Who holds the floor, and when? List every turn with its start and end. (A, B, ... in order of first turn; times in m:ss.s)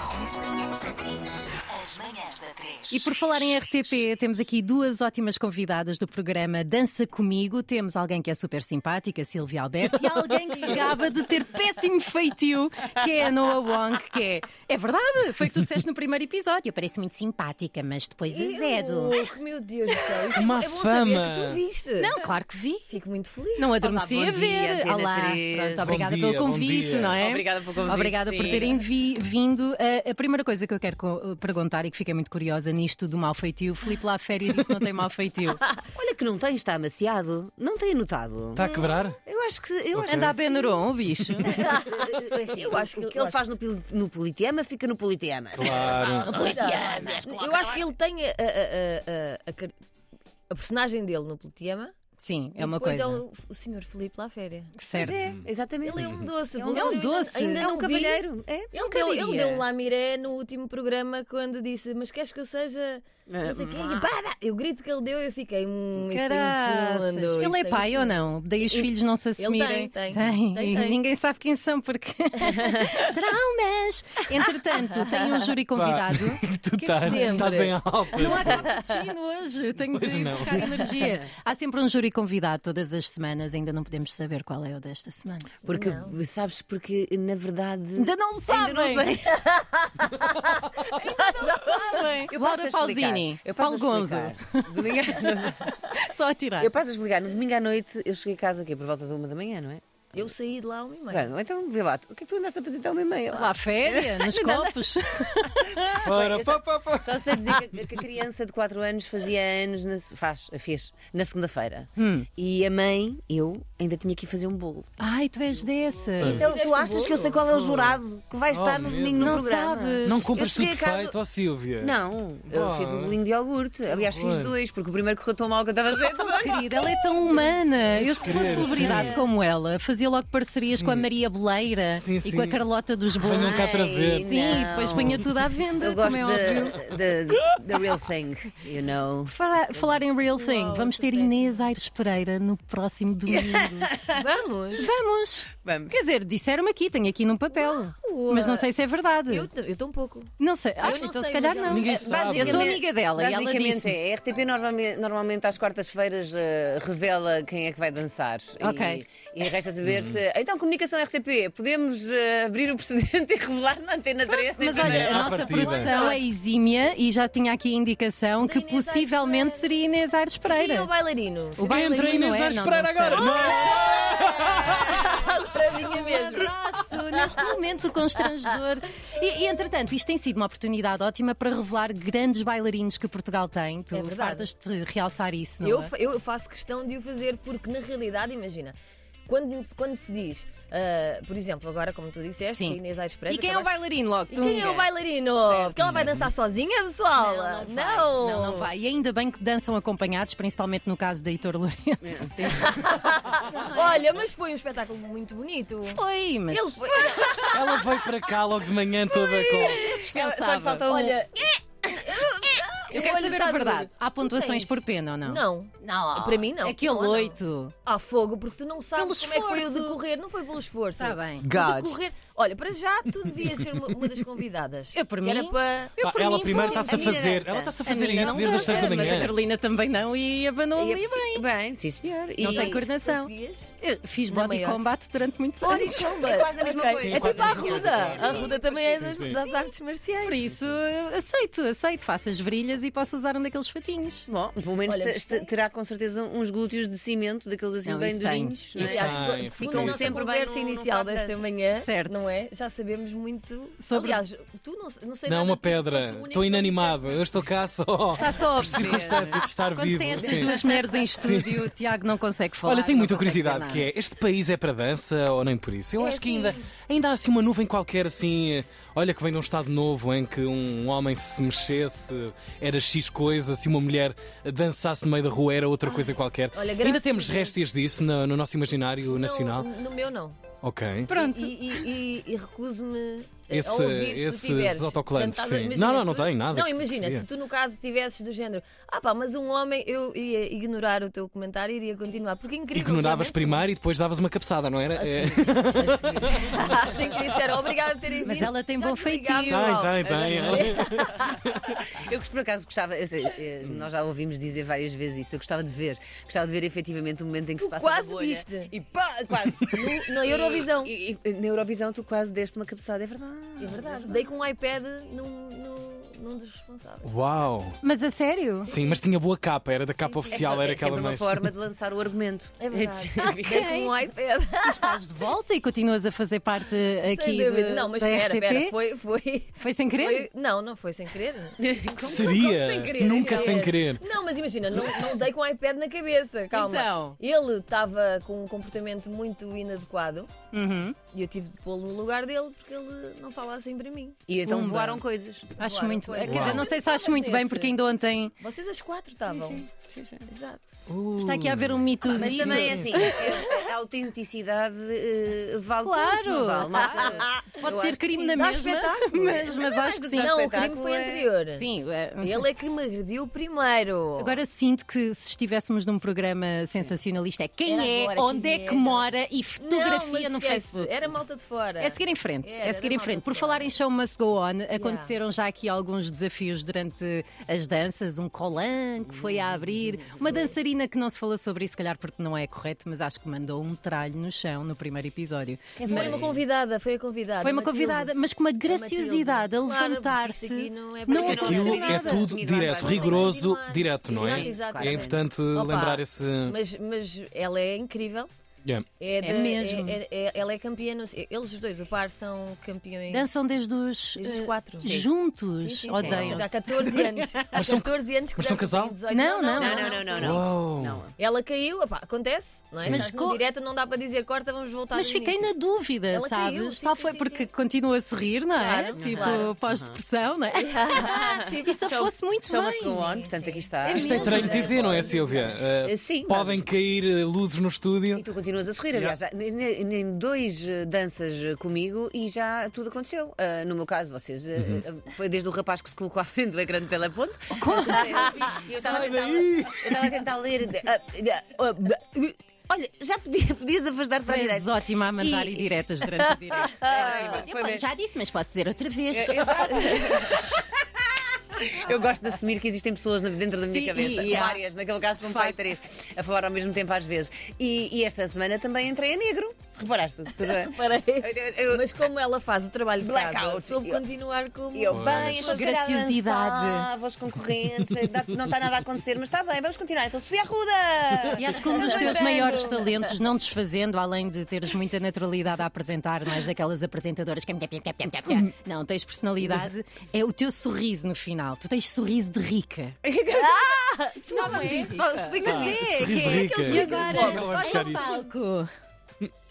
0:01.8-0:02.6 A
0:02.9-0:19.2 B
0:18.3-0:22.2 C
0:20.3-0:21.6 D
0:22.0-0:22.9 B
0:22.9-0:23.7 C
0:23.6-0:35.6 B
0:23.8-0:26.0 A
0:25.8-0:27.2 D
0:27.2-0:28.8 A
0:35.9-0:47.9 A
0:38.6-0:39.2 D
0:40.0-0:40.4 D
0:40.1-0:41.6 B
0:41.5-0:43.4 C
0:45.6-0:46.4 D
0:46.2-0:49.7 C
0:50.5-0:51.9 C
0:52.2-0:53.2 B
0:52.6-0:54.7 C
0:54.8-0:55.3 B
0:54.9-0:58.7 A
0:55.8-1:11.0 C
0:56.0-0:56.3 D
0:56.7-0:57.7 B
0:58.7-0:59.6 B
1:03.3-1:04.1 A
1:06.0-1:17.6 B
1:12.5-1:12.8 C
1:15.7-1:18.6 D
1:17.0-1:19.0 C
1:18.1-1:25.5 B
1:19.9-1:20.7 D
1:20.8-1:21.0 C
1:21.0-1:21.3 A
1:25.6-1:26.1 C
1:25.6-1:29.4 A
1:28.0-1:29.1 B
1:29.2-1:32.1 C
1:31.0-1:35.8 A
1:31.8-1:34.8 B
1:35.9-1:36.7 B
1:36.6-1:40.3 A
1:40.1-1:41.3 C
1:41.1-1:45.0 A
1:43.3-1:46.0 B
1:45.8-1:54.9 A
1:46.0-1:47.7 D
1:52.0-1:52.3 B
1:55.0-1:56.5 B
1:56.2-1:56.5 D
1:56.3-2:01.2 A
1:56.4-1:57.4 C
1:57.6-1:57.9 B
1:58.5-1:59.4 D
1:59.2-2:00.3 B
2:00.0-2:01.9 D
2:01.8-2:06.9 A
2:02.5-2:03.2 D
2:03.9-2:04.5 D
2:06.4-2:16.8 B
2:07.9-2:09.1 D
2:08.2-2:09.3 C
2:10.8-2:11.0 D
2:11.9-2:12.6 D
2:13.2-2:14.3 D
2:13.4-2:15.3 A
2:15.8-2:19.3 A
2:19.3-2:23.9 B
2:20.2-2:21.7 C
2:23.3-2:24.2 A
2:24.1-2:24.9 C
2:24.8-2:29.5 B
2:25.6-2:26.0 A
2:27.5-2:28.7 C
2:29.3-2:32.2 C
2:30.4-2:34.0 B
2:31.6-2:32.8 D
2:31.9-2:46.2 A
2:38.6-2:39.0 B
2:39.8-2:40.2 D
2:44.6-2:50.9 B
2:44.7-2:46.0 D
2:45.6-2:46.2 C
2:48.4-2:49.8 C
2:50.5-2:51.7 C
2:51.6-2:53.3 B
2:51.6-2:55.1 D
2:53.2-2:56.5 C
2:55.8-3:05.9 B
2:57.2-2:57.4 C
3:03.9-3:04.5 C
3:05.6-3:08.8 C
3:09.3-3:13.7 C
3:12.5-3:14.7 B
3:14.3-3:18.7 C
3:14.5-3:14.9 A
3:15.5-3:16.0 A
3:15.8-3:16.3 D
3:17.1-3:22.8 B
3:22.0-3:23.3 A
3:22.6-3:27.8 C
3:23.5-3:24.1 B
3:25.8-3:26.8 B
3:27.0-3:27.4 A
3:27.5-3:29.8 D
3:29.3-3:29.7 C
3:29.7-3:30.8 B
3:29.9-3:31.2 A
3:30.8-3:47.1 C
3:32.9-3:37.7 B
3:39.0-3:40.0 B
3:41.0-3:41.5 B
3:41.4-3:42.0 A
3:44.9-3:47.2 B
3:46.0-3:49.4 D
3:46.9-3:47.8 A
3:47.8-3:51.4 B
3:48.3-3:49.1 C
3:50.7-3:52.8 A
3:52.4-3:56.2 B
3:52.4-3:53.7 C
3:54.3-3:54.8 C
3:55.6-4:00.5 C
3:56.0-3:58.6 A
3:57.0-3:59.4 D
4:00.2-4:04.2 B
4:04.3-4:11.5 A
4:04.9-4:05.5 C
4:07.8-4:09.1 B
4:08.8-4:17.4 C
4:08.9-4:10.1 D
4:11.7-4:12.3 B
4:13.8-4:14.2 B
4:15.2-4:20.6 D
4:18.1-4:23.9 B
4:18.4-4:19.4 A
4:21.1-4:21.7 D
4:22.6-4:39.7 D
4:26.0-4:26.7 C
4:35.8-4:37.6 C
4:39.1-4:40.4 C
4:40.6-4:41.1 D
4:41.1-4:41.9 B
4:41.1-4:53.6 C
4:43.5-4:47.2 D
4:52.7-4:56.6 D
4:54.9-5:01.4 C
4:58.2-4:59.7 B
4:59.5-5:01.8 D
5:00.0-5:01.0 A
5:01.8-5:14.3 A
5:07.6-5:08.7 C
5:09.7-5:10.9 C
5:13.6-5:17.1 C
5:17.0-5:17.8 D
5:17.8-5:18.7 B
5:18.7-5:21.3 D
5:20.0-5:20.6 C
5:20.3-5:23.7 A
5:22.6-5:25.0 C
5:23.2-5:24.0 B
5:24.6-5:28.8 B
5:27.0-5:31.6 C
5:29.6-5:30.3 B
5:31.6-5:33.7 A
5:32.0-5:34.0 D
5:32.9-5:40.3 C
5:36.5-5:37.2 B
5:40.5-5:41.0 B
5:41.1-5:44.2 C
5:44.3-5:45.5 A
5:44.4-5:45.0 B
5:45.6-5:47.8 C
5:45.6-5:48.3 B
5:46.2-5:46.6 D
5:48.4-5:49.7 C
5:49.2-5:50.3 A
5:50.3-5:50.8 C
5:50.9-5:53.0 D
5:51.1-5:53.1 B
5:52.1-5:58.2 A
5:53.0-5:53.7 C
5:55.8-6:00.5 B
5:56.8-6:01.6 C
5:59.6-6:01.3 A
6:01.5-6:02.5 B
6:02.2-6:04.4 C
6:04.2-6:10.9 B
6:07.6-6:13.8 C
6:11.8-6:26.2 B
6:14.7-6:15.1 C
6:19.1-6:20.0 A
6:25.8-6:26.3 A
6:25.8-6:28.1 C
6:27.4-6:32.3 B
6:28.7-6:38.3 C
6:31.1-6:33.3 A
6:31.3-6:36.6 D
6:34.1-6:35.3 A
6:39.0-6:43.3 C
6:39.2-6:40.0 B
6:43.1-6:47.4 B
6:44.2-6:45.0 C
6:44.8-6:45.1 A
6:45.6-6:50.4 C
6:46.0-6:46.3 A
6:46.0-6:46.4 D
6:47.5-6:48.9 D
6:49.1-6:50.0 B
6:49.6-6:51.1 A
6:50.2-6:51.0 D
6:51.2-6:55.5 C
6:52.8-6:53.1 D
6:52.8-6:53.4 B
6:54.9-7:03.1 B
6:56.1-6:57.5 C
6:58.5-6:59.5 C
6:59.0-7:00.0 A
7:00.5-7:01.9 C
7:01.6-7:06.6 A
7:02.8-7:05.5 C
7:03.8-7:04.7 B
7:03.9-7:08.2 D
7:08.1-7:25.7 A
7:17.5-7:18.6 B
7:18.6-7:19.9 D
7:24.2-7:29.9 B
7:26.3-7:27.4 C
7:26.6-7:27.8 A
7:29.1-7:41.9 A
7:29.6-7:30.4 C
7:33.7-7:34.6 B
7:35.2-7:35.6 B
7:40.4-7:45.8 C
7:43.0-7:44.0 A
7:44.7-7:53.0 A
7:44.9-7:45.4 D
7:45.4-7:46.9 B
7:51.3-8:03.0 B
7:51.8-7:52.6 C
8:03.0-8:06.6 A
8:03.3-8:05.3 C
8:04.3-8:08.7 B
8:05.4-8:08.2 D
8:06.2-8:08.3 C